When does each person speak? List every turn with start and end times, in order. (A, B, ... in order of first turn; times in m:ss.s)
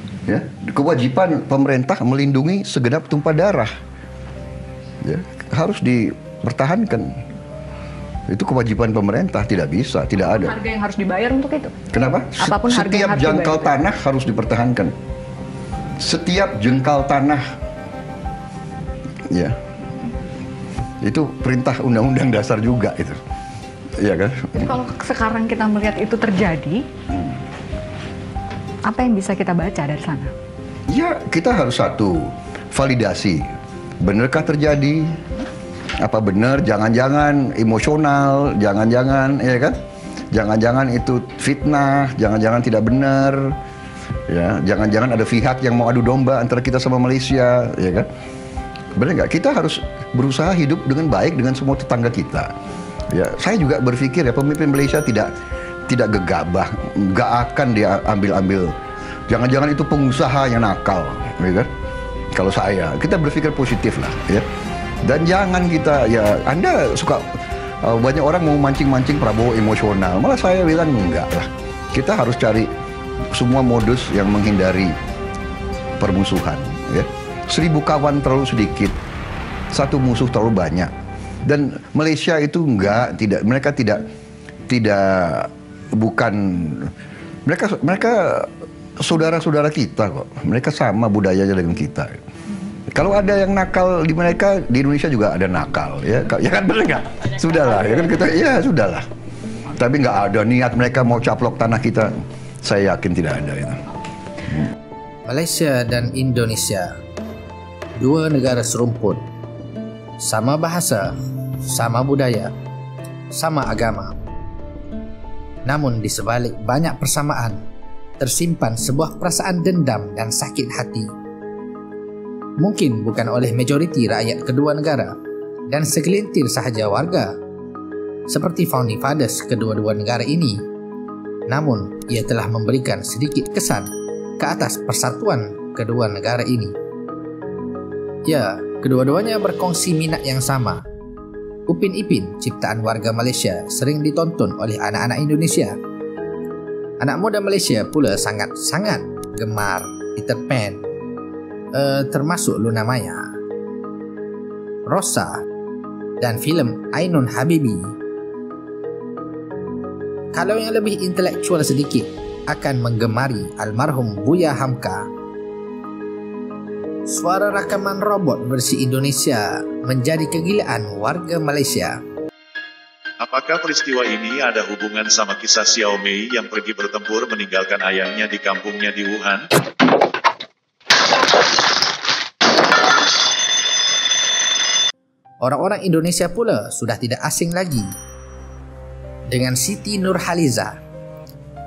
0:00.3-0:03.7 A
0:05.0-0:07.2 A
0:08.3-0:10.6 A
0:10.4-0:11.8 B
0:11.9-0:14.9 A
0:12.4-0:13.8 B
0:16.0-0:17.4 A
0:19.3-0:19.6 A
0:21.0-0:23.2 A
0:24.0-0:24.7 A
0:24.6-0:26.8 B
0:28.8-0:30.3 B
0:30.9-0:33.5 A
0:34.0-0:35.2 A
0:36.0-0:39.8 A
0:40.3-0:43.6 A
0:44.3-0:48.1 A
0:49.0-0:52.5 A
0:53.1-0:55.3 A
0:55.9-0:58.7 A
0:59.3-1:01.7 A
1:02.3-1:04.5 A
1:05.0-1:07.2 A
1:07.8-1:12.7 A
1:13.3-1:15.0 A
1:16.0-1:19.0 A
1:19.7-1:20.9 A
1:21.4-1:24.0 A
1:24.7-1:26.9 A
1:27.5-1:32.2 A
1:32.9-1:39.1 A
1:39.7-1:43.9 A
1:45.3-1:46.9 C
1:48.0-1:49.2 C
1:50.2-1:52.5 C
1:53.3-1:54.2 C
1:55.7-1:57.6 C
1:58.2-2:01.1 C
2:02.6-2:05.2 C
2:05.7-2:07.4 C
2:08.3-2:10.6 C
2:11.5-2:13.9 C
2:14.4-2:16.8 C
2:18.3-2:20.8 C
2:21.7-2:25.8 C
2:27.0-2:30.9 C
2:31.7-2:33.3 C
2:34.9-2:35.4 C
2:36.2-2:38.0 C
2:40.4-2:45.1 C
2:47.1-2:52.0 C
2:53.2-2:59.4 D
3:05.4-3:07.9 C
3:09.3-3:10.8 C